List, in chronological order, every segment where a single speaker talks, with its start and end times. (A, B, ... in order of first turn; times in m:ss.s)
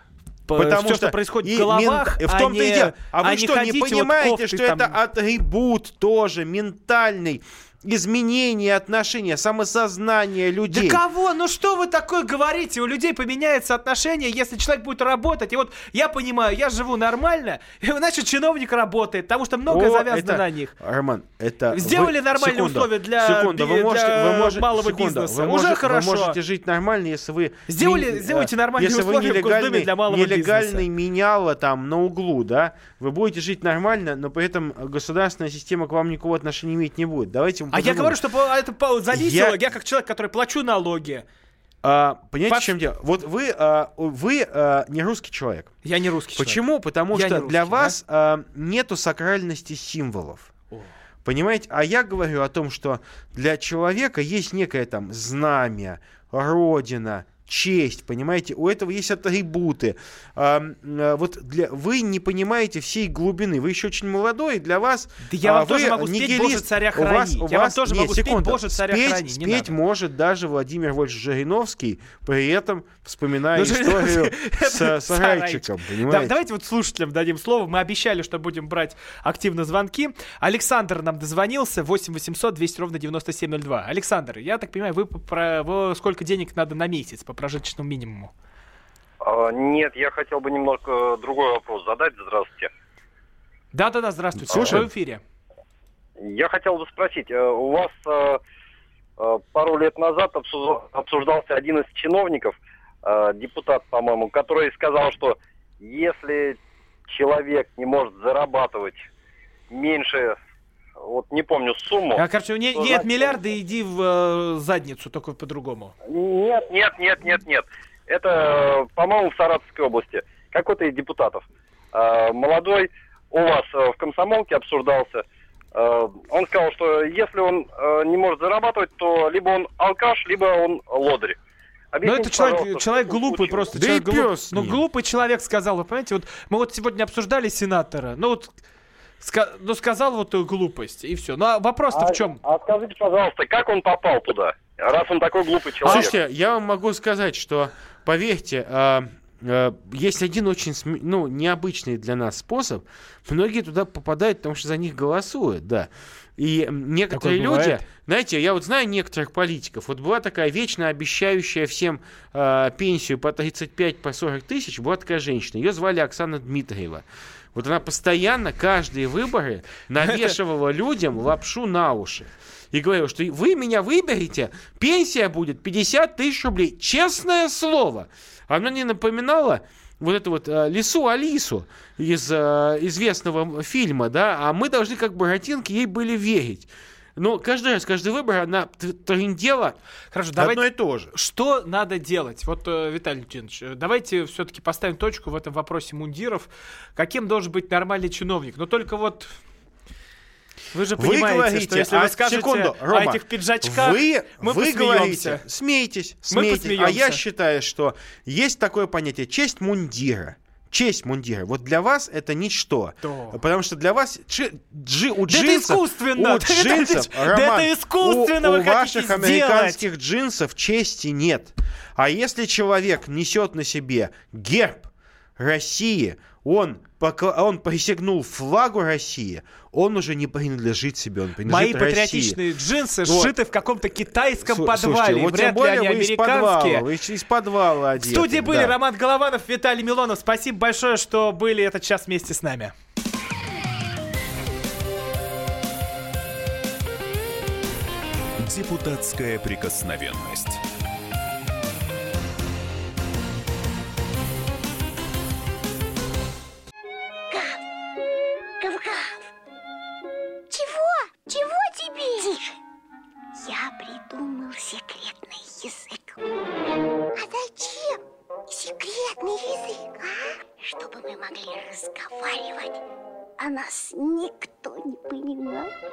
0:00.5-0:04.9 A
0:00.6-0:11.0 B
0:10.7-0:20.7 A
0:19.7-0:38.2 B
0:21.7-0:26.4 A
0:27.7-0:30.8 A
0:37.7-0:41.2 A
0:39.1-0:39.6 B
0:41.8-0:45.7 B
0:42.5-0:42.7 A
0:45.8-0:48.0 A
0:46.4-0:50.5 B
0:51.2-1:16.4 B
1:05.2-1:09.7 A
1:13.6-1:28.3 A
1:29.2-1:32.7 C
1:33.7-1:35.2 A
1:34.4-1:34.9 B
1:36.2-1:38.4 C
1:39.2-1:46.6 C
1:47.1-1:49.0 C
1:49.7-1:50.4 C
1:51.0-1:52.2 C
1:52.2-1:55.9 A
1:52.7-1:53.4 C
1:56.1-2:05.2 C
2:05.7-2:11.4 C
2:11.9-2:13.7 C
2:12.0-2:18.5 A
2:13.7-2:14.8 B
2:19.2-2:22.4 A
2:21.9-2:26.1 C
2:25.8-2:26.1 A
2:25.8-3:09.8 B
2:37.1-2:37.8 A
2:50.0-2:50.3 A
3:10.1-3:19.4 A
3:10.4-3:11.1 B
3:20.7-3:25.4 A
3:21.0-3:52.4 B
3:26.3-3:27.2 A
3:33.0-3:33.4 A
3:35.3-3:39.8 A
3:51.4-3:56.8 A
3:53.0-3:53.4 B
3:54.4-3:58.7 B
3:58.0-4:02.7 A
4:08.4-4:10.6 D
4:17.3-4:17.6 E
4:18.6-4:19.3 E
4:20.5-4:22.6 E
4:23.3-4:26.2 E
4:27.2-4:32.8 E
4:33.4-4:35.7 E